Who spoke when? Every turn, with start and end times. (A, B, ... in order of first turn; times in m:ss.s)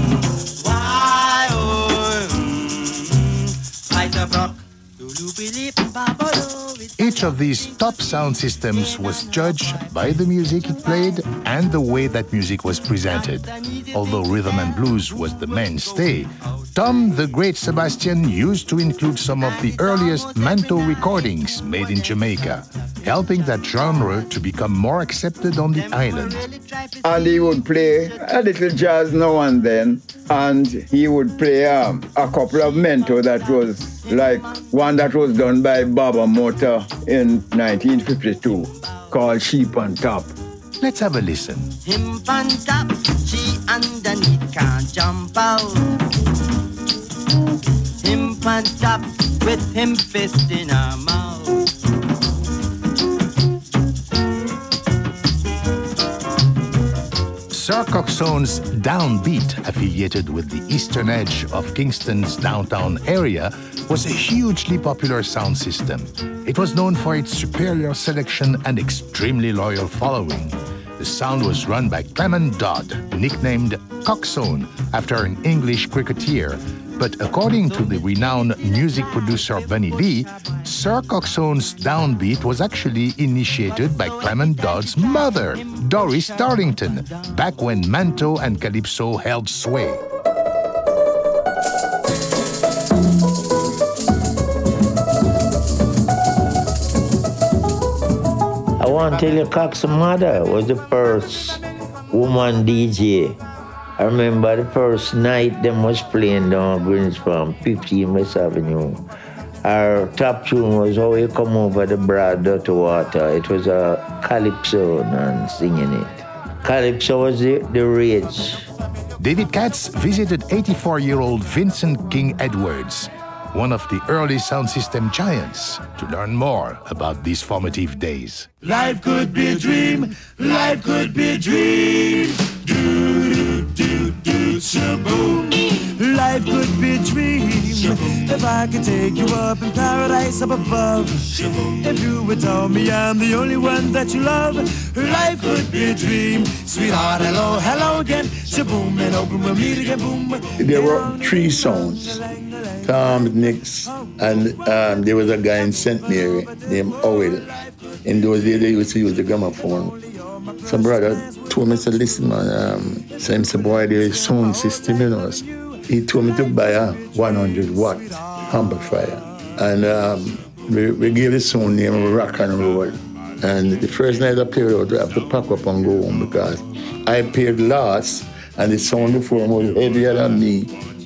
0:00.6-0:07.2 A
0:07.0-0:26.5 B
0:25.8-0:27.4 A
0:27.0-0:40.4 C
0:40.8-0:41.8 B
0:41.8-0:46.0 A
0:48.0-0:51.7 A
0:57.5-1:30.0 B
1:38.8-1:43.4 D
1:44.0-1:49.0 D
1:49.6-1:58.7 D
1:59.2-2:08.5 B
2:08.6-2:30.5 E
2:30.6-2:32.2 F
2:32.8-2:37.5 F
2:38.0-2:40.0 F
2:40.6-3:00.7 F